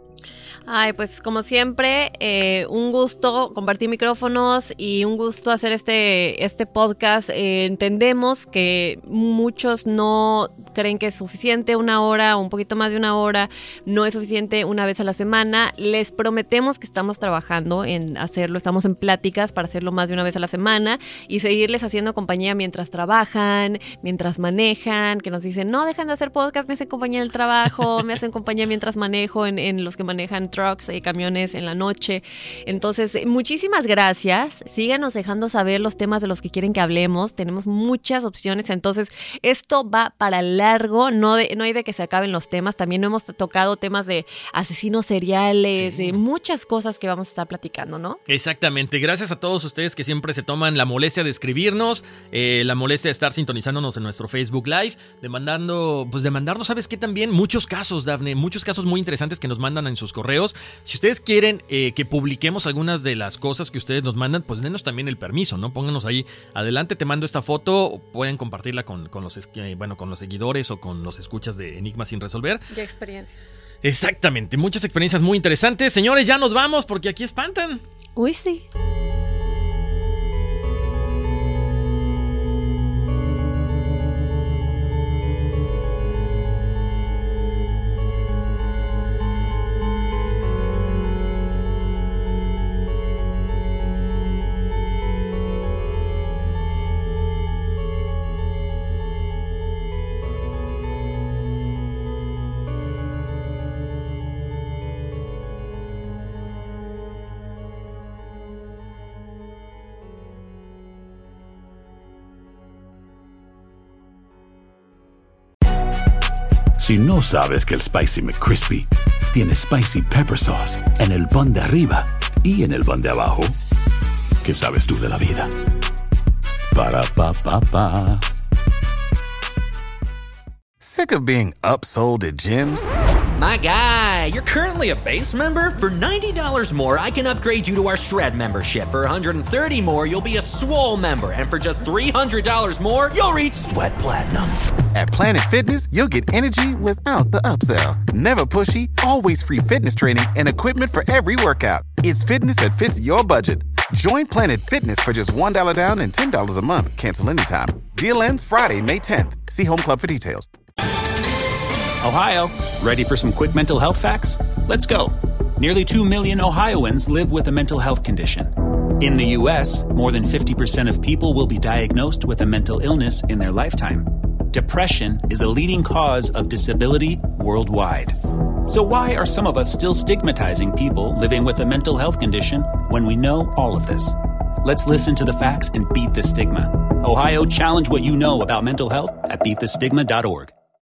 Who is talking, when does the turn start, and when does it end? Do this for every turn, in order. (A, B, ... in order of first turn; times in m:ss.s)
0:00.7-0:48.2 A
0:45.8-0:46.2 B
0:48.3-1:12.6 B
1:12.7-1:13.4 A
1:13.8-1:17.8 B
1:18.2-1:18.6 A
1:56.8-2:03.5 C
2:04.4-2:05.5 C
2:06.7-2:08.2 C
2:10.8-2:12.9 D
2:13.4-2:24.3 E
2:23.7-2:24.5 C
2:24.9-2:40.5 D
2:42.0-3:10.5 F